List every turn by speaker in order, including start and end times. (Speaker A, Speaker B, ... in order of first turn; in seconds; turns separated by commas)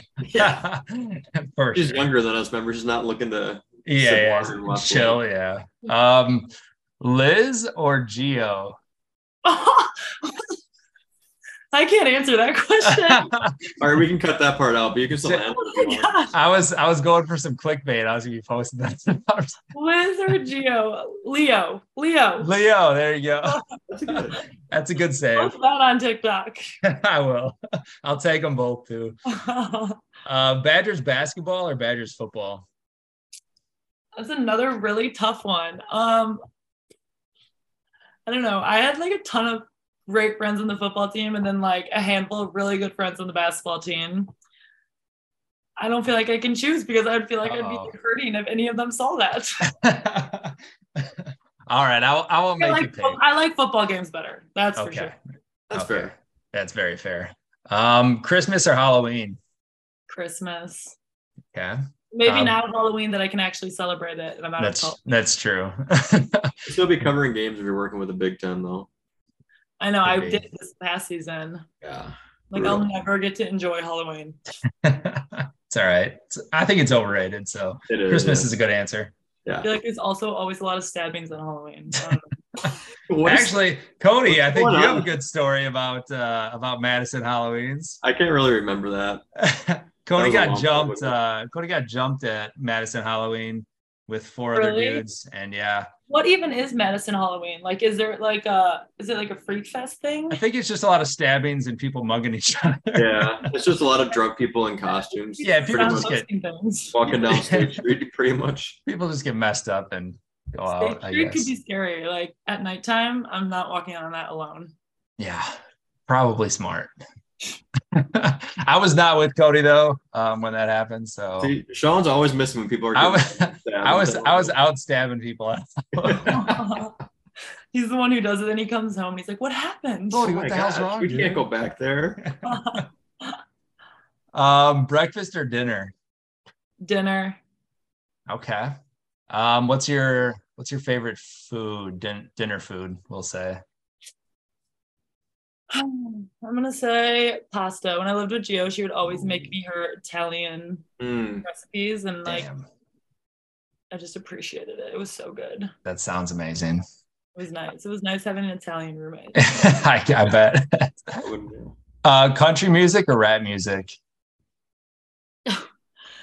Speaker A: 0.2-0.6, Speaker B: 0.3-2.1, Speaker A: 1.8-5.2, Speaker B: 3.9-8.8, Speaker C: 9.4-10.6, Speaker C: 11.7-13.3, Speaker B: 12.8-13.7, Speaker A: 13.8-16.2, Speaker C: 15.6-16.3, Speaker B: 16.3-19.6, Speaker C: 19.7-22.5, Speaker B: 22.4-23.6, Speaker A: 23.9-24.4, Speaker B: 24.1-25.5, Speaker C: 25.4-26.6, Speaker B: 26.8-29.2, Speaker C: 29.3-30.0, Speaker B: 30.2-32.7, Speaker C: 34.2-36.4, Speaker C: 38.3-44.3, Speaker C: 45.8-49.7, Speaker B: 47.4-47.9, Speaker B: 49.6-53.2, Speaker C: 52.6-55.1, Speaker B: 54.8-55.2, Speaker A: 55.7-56.1, Speaker B: 55.7-59.4, Speaker C: 60.1-61.0, Speaker B: 61.5-62.6, Speaker C: 62.1-65.0, Speaker B: 64.6-66.7, Speaker A: 66.7-68.9, Speaker C: 69.8-71.7, Speaker B: 70.0-70.4, Speaker A: 71.8-72.8, Speaker C: 72.5-74.4, Speaker B: 74.8-79.1, Speaker A: 77.9-78.5, Speaker C: 79.6-82.3, Speaker A: 83.1-83.5, Speaker B: 83.2-88.0, Speaker A: 84.3-85.1, Speaker A: 88.0-89.2, Speaker B: 89.4-95.9, Speaker A: 90.2-91.1, Speaker C: 94.5-95.0, Speaker C: 96.1-100.4, Speaker B: 100.3-103.5, Speaker A: 103.0-106.1, Speaker C: 105.4-107.0, Speaker B: 105.4-106.3, Speaker A: 106.9-108.8, Speaker B: 107.3-107.8, Speaker B: 108.9-111.5, Speaker C: 110.7-114.7, Speaker B: 115.2-115.5, Speaker B: 116.1-116.9, Speaker B: 117.9-121.5, Speaker A: 121.4-124.5, Speaker B: 123.0-126.6, Speaker A: 126.0-126.3, Speaker C: 126.1-126.9, Speaker C: 127.7-130.3, Speaker B: 130.1-131.5, Speaker A: 130.2-132.2, Speaker B: 132.2-132.8, Speaker C: 132.4-133.3, Speaker B: 134.3-135.9, Speaker C: 136.8-137.4, Speaker B: 138.3-138.8, Speaker B: 139.3-143.6, Speaker C: 145.7-150.9, Speaker A: 151.0-151.5, Speaker C: 151.4-152.5, Speaker B: 152.2-152.7, Speaker C: 153.9-155.7, Speaker B: 155.8-156.8, Speaker C: 157.4-159.8, Speaker B: 159.3-161.2, Speaker A: 161.2-161.8, Speaker B: 162.0-164.0